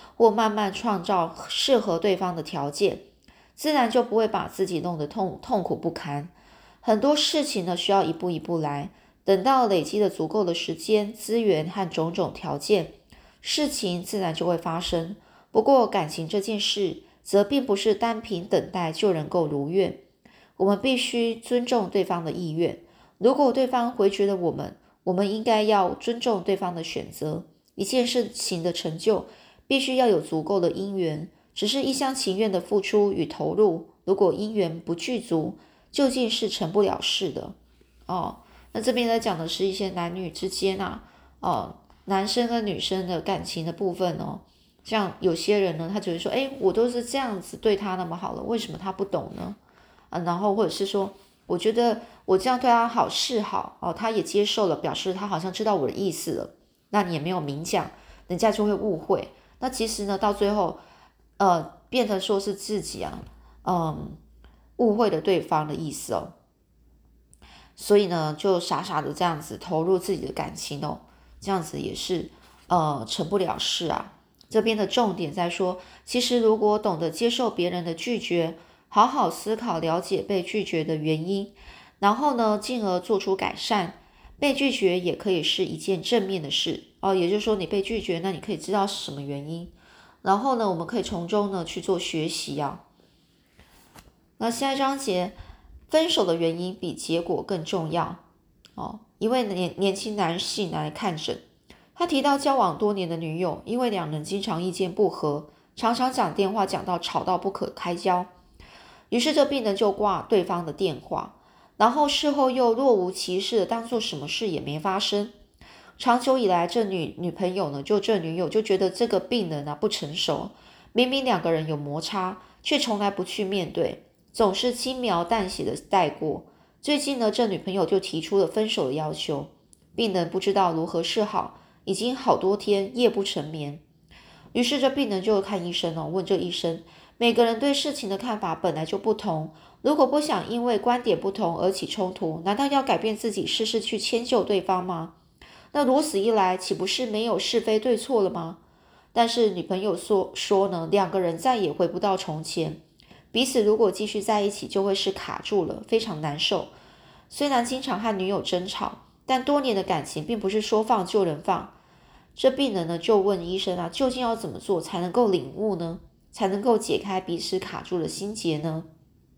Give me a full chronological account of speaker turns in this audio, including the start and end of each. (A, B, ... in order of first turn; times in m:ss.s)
0:00.2-0:03.0 A
0:03.6-0:20.0 A
0:20.6-0:37.5 A
0:38.1-0:49.6 A
0:50.1-1:00.8 A
1:01.4-1:04.2 A
1:04.8-1:06.3 A
1:07.8-1:32.8 A
1:34.4-1:35.3 A
1:35.9-1:38.2 A
1:38.8-1:41.4 A
1:42.0-1:48.3 A
1:49.1-1:55.3 A
1:56.0-2:13.8 A
2:14.5-2:25.1 A
2:25.7-2:28.6 A
2:29.1-2:32.8 A
2:33.3-2:36.7 A
2:37.3-2:41.7 A
2:42.4-2:48.9 A